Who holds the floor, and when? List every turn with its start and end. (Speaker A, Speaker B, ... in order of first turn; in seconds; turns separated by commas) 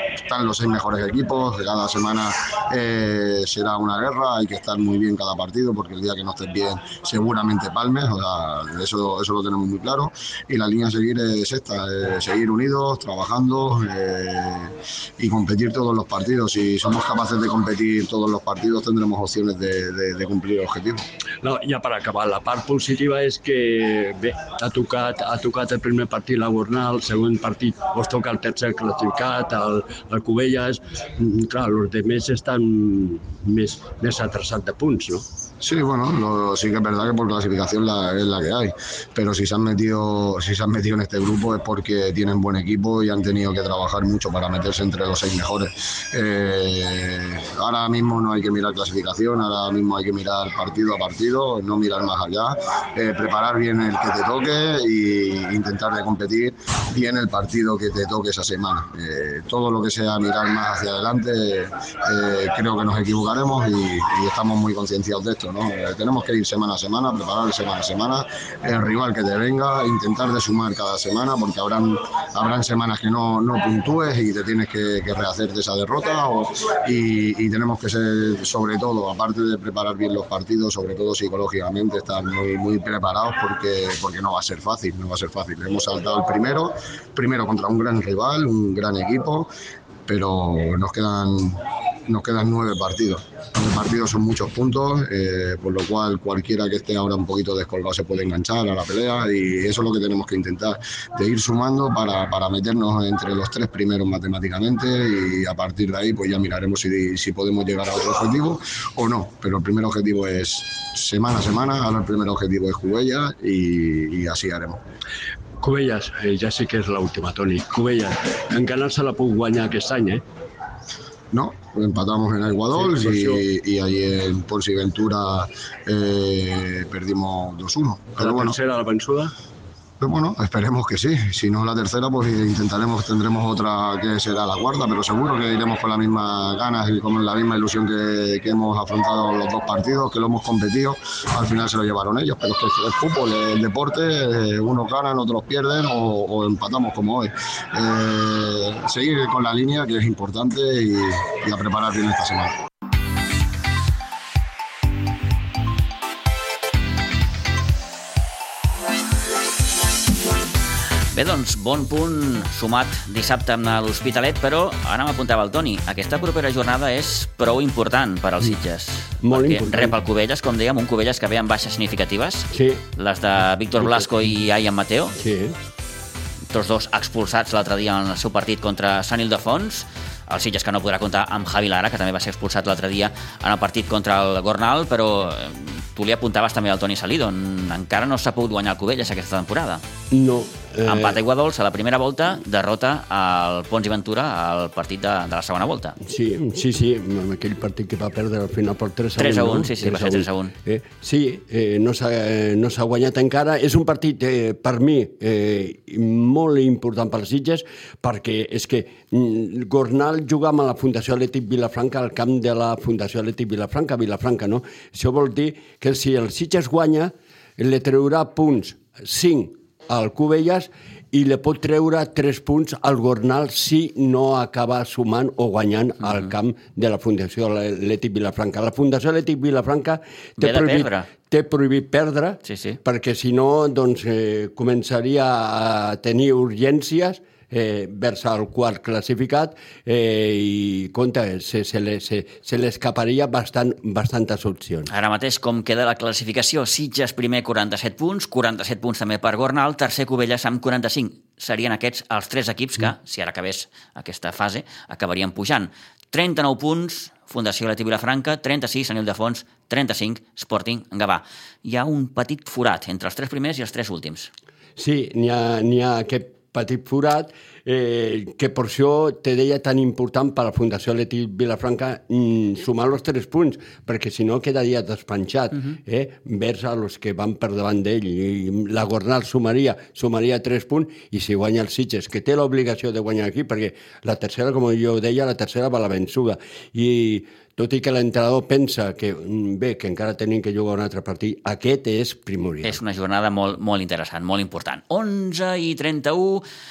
Speaker A: 0.2-21.0, Speaker B: 21.4-35.3, Speaker A: 35.6-89.5, Speaker A: 90.1-114.8, Speaker B: 115.6-120.2, Speaker A: 121.3-128.6, Speaker B: 122.7-123.4, Speaker B: 128.2-129.3, Speaker A: 130.0-152.6, Speaker C: 161.1-175.2, Speaker D: 169.2-170.0, Speaker D: 172.5-172.8, Speaker D: 173.8-174.1, Speaker D: 175.2-175.6, Speaker C: 176.5-189.8, Speaker D: 190.1-191.2, Speaker C: 190.9-196.0, Speaker D: 196.0-244.9, Speaker C: 199.2-200.5, Speaker C: 226.0-226.3, Speaker C: 230.4-231.1, Speaker C: 232.4-232.8, Speaker C: 244.9-264.3, Speaker D: 264.8-292.8, Speaker C: 292.6-296.4